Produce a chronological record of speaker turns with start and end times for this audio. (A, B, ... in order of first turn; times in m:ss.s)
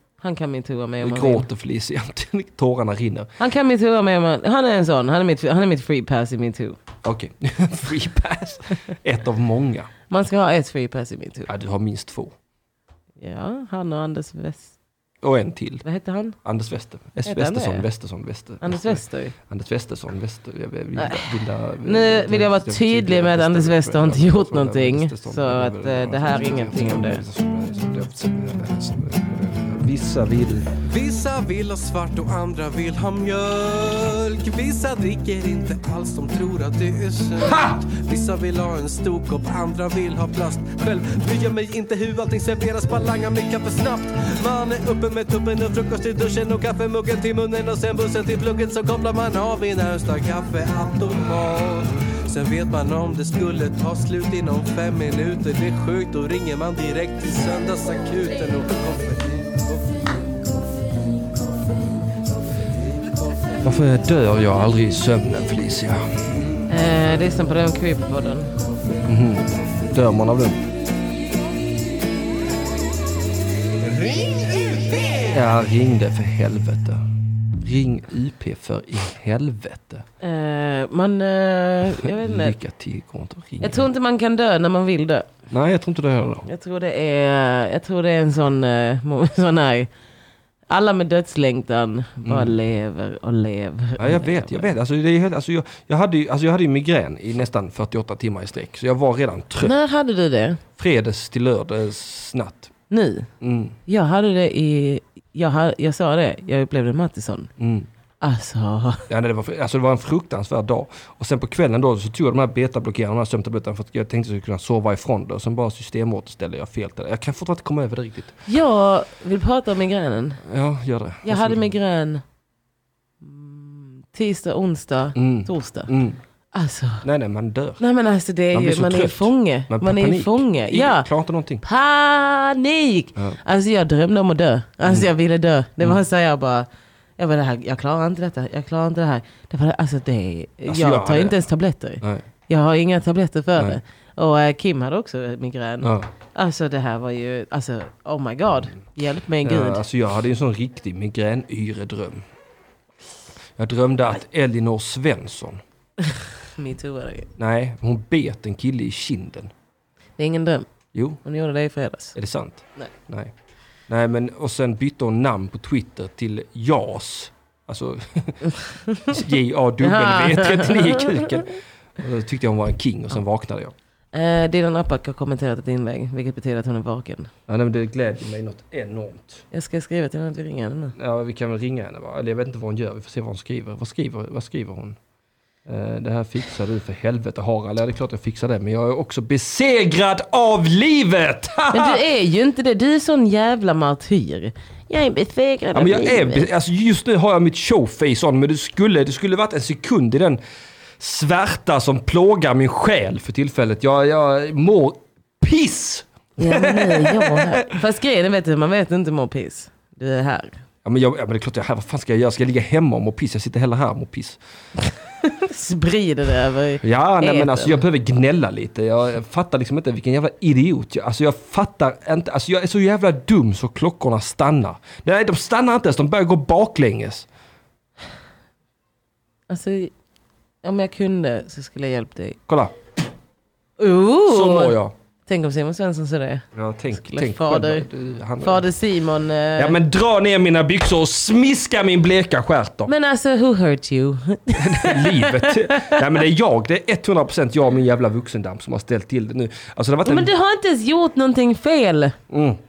0:00.2-0:01.5 A
0:01.0-0:03.3 B
0:03.4-0:06.8 A
0:07.0-0:09.9 B
0:10.1-0:11.5 A
0:11.5-0:12.3 B
0:13.2-0:14.7 A
0:15.2-0:15.8 B
0:15.8-0:16.4 A
0:16.4-0:30.7 B
0:17.2-0:17.8 A
0:18.6-0:19.3 A
0:21.0-0:27.2 A
0:30.8-1:00.2 C
0:37.4-0:37.8 B
1:03.6-1:06.2 B
1:06.7-1:08.5 A
1:09.0-1:10.6 B
1:15.2-1:17.1 B
1:17.6-1:20.0 B
1:20.2-1:22.6 A
1:22.0-1:23.9 B
1:23.6-1:25.3 A
1:25.5-1:26.5 B
1:26.4-1:29.9 A
1:30.7-1:34.7 A
1:32.2-1:32.6 B
1:34.0-1:39.7 B
1:39.6-1:40.6 A
1:40.8-1:42.7 B
1:42.9-1:43.3 A
1:43.4-1:43.8 B
1:43.9-1:47.5 A
1:47.6-1:47.9 B
1:48.2-1:49.1 A
1:49.1-1:58.4 B
1:58.5-2:00.4 A
2:00.4-2:01.7 B
2:01.2-2:02.2 A
2:03.2-2:05.9 A
2:05.2-2:06.2 B
2:06.5-2:07.0 A
2:07.0-2:07.8 B
2:07.8-2:11.1 A
2:08.5-2:11.6 B
2:11.6-2:29.8 A
2:20.6-2:21.4 B
2:25.8-2:26.1 B
2:29.4-2:32.2 B
2:33.6-2:35.6 B
2:36.0-2:37.3 A
2:37.4-2:39.5 B
2:40.2-2:40.7 A
2:40.9-2:41.2 B
2:41.2-2:42.1 A
2:42.1-2:43.3 B
2:43.9-2:53.7 B
2:48.9-2:49.2 A
2:49.8-2:51.5 A
2:54.1-2:57.3 A
2:57.5-2:59.4 B
2:59.5-3:00.9 A
3:01.0-3:05.0 B
3:05.6-3:12.0 B
3:11.7-3:16.5 A
3:15.7-3:20.4 B
3:21.0-3:27.7 B
3:26.4-3:30.6 A
3:30.8-3:34.4 B
3:35.2-3:37.8 A
3:36.8-3:47.3 B
3:49.5-3:49.9 A
3:50.6-3:52.4 A
3:52.5-3:52.7 B
3:53.8-3:54.8 A
3:54.3-3:54.9 B
3:55.3-3:57.9 A
3:56.5-3:58.6 B
3:58.4-3:59.8 A
3:59.6-4:02.9 B
4:02.8-4:06.0 A
4:04.5-4:10.3 B
4:10.0-4:12.2 A
4:12.3-4:12.6 B